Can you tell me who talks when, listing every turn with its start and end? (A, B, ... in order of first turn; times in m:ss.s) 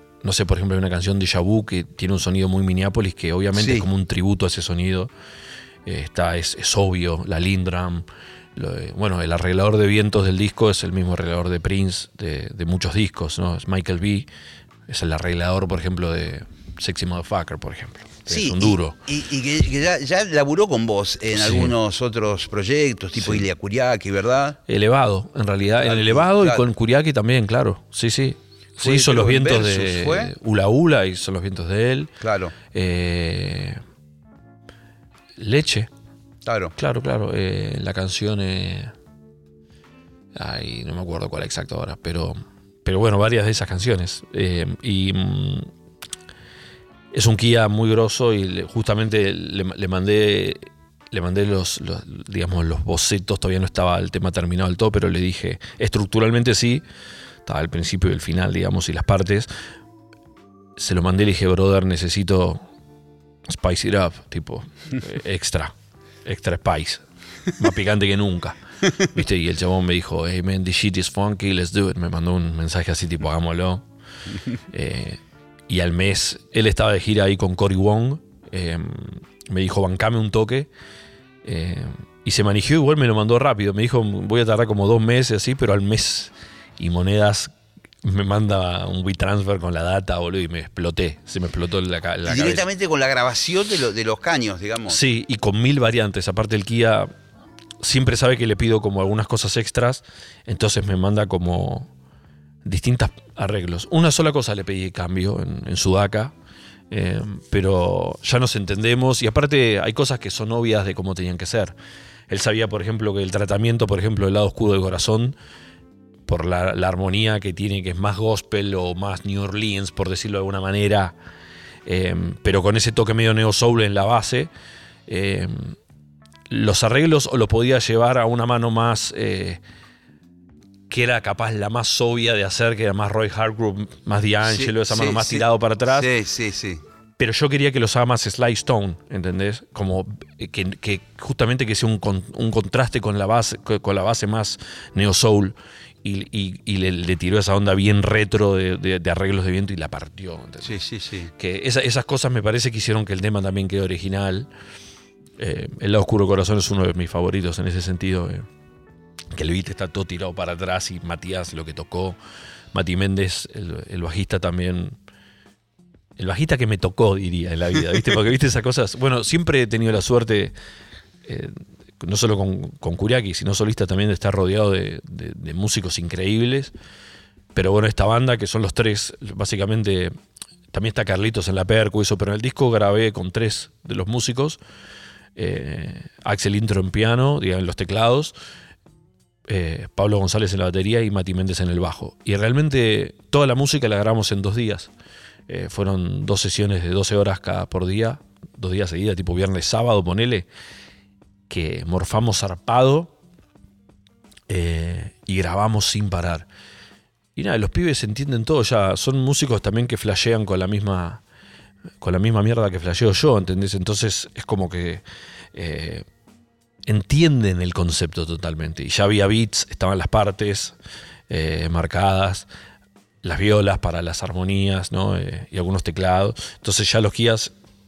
0:00.2-0:05.1 A
0:03.6-0:03.8 B
0:05.8-0:14.3 A
0:14.9-0:19.0 A
0:18.3-0:24.6 B
0:21.3-0:21.7 A
0:23.2-0:23.4 A
0:24.7-0:32.1 A
0:25.8-0:26.6 B
0:28.8-0:30.3 B
0:32.2-0:32.5 B
0:32.7-0:33.8 A
0:35.4-0:35.9 A
0:36.4-0:36.7 B
0:36.8-0:38.9 A
0:40.3-0:45.7 A
0:47.1-0:56.8 A
0:57.4-0:59.5 A
1:00.8-1:02.6 A
1:03.5-1:05.7 A
1:06.2-1:13.8 A
1:14.7-1:20.7 A
1:21.4-1:32.7 A
1:32.2-1:35.0 B
1:34.9-1:37.1 A
1:37.8-1:41.9 A
1:42.6-1:46.3 A
1:46.9-1:51.7 A
1:52.3-1:55.4 A
1:56.3-2:01.1 A
2:01.8-2:04.5 A
2:05.1-2:05.8 A
2:06.5-2:09.6 A
2:10.9-2:16.1 A
2:14.4-2:16.8 B
2:17.2-2:30.8 A
2:30.6-2:31.3 B
2:31.4-2:34.5 A
2:35.4-2:38.5 A
2:39.3-2:42.2 A
2:42.7-2:45.0 A
2:46.2-2:50.5 A
2:51.2-2:56.7 A
2:57.5-3:00.1 A
3:00.7-3:04.6 A
3:05.4-3:08.3 A
3:09.5-3:14.9 A
3:15.5-3:20.5 A
3:21.5-3:23.1 A
3:24.5-3:26.5 A
3:27.4-3:31.2 A
3:32.0-3:35.0 A
3:35.5-3:36.0 A
3:36.9-3:40.8 A
3:41.3-3:42.5 A
3:43.2-3:47.5 A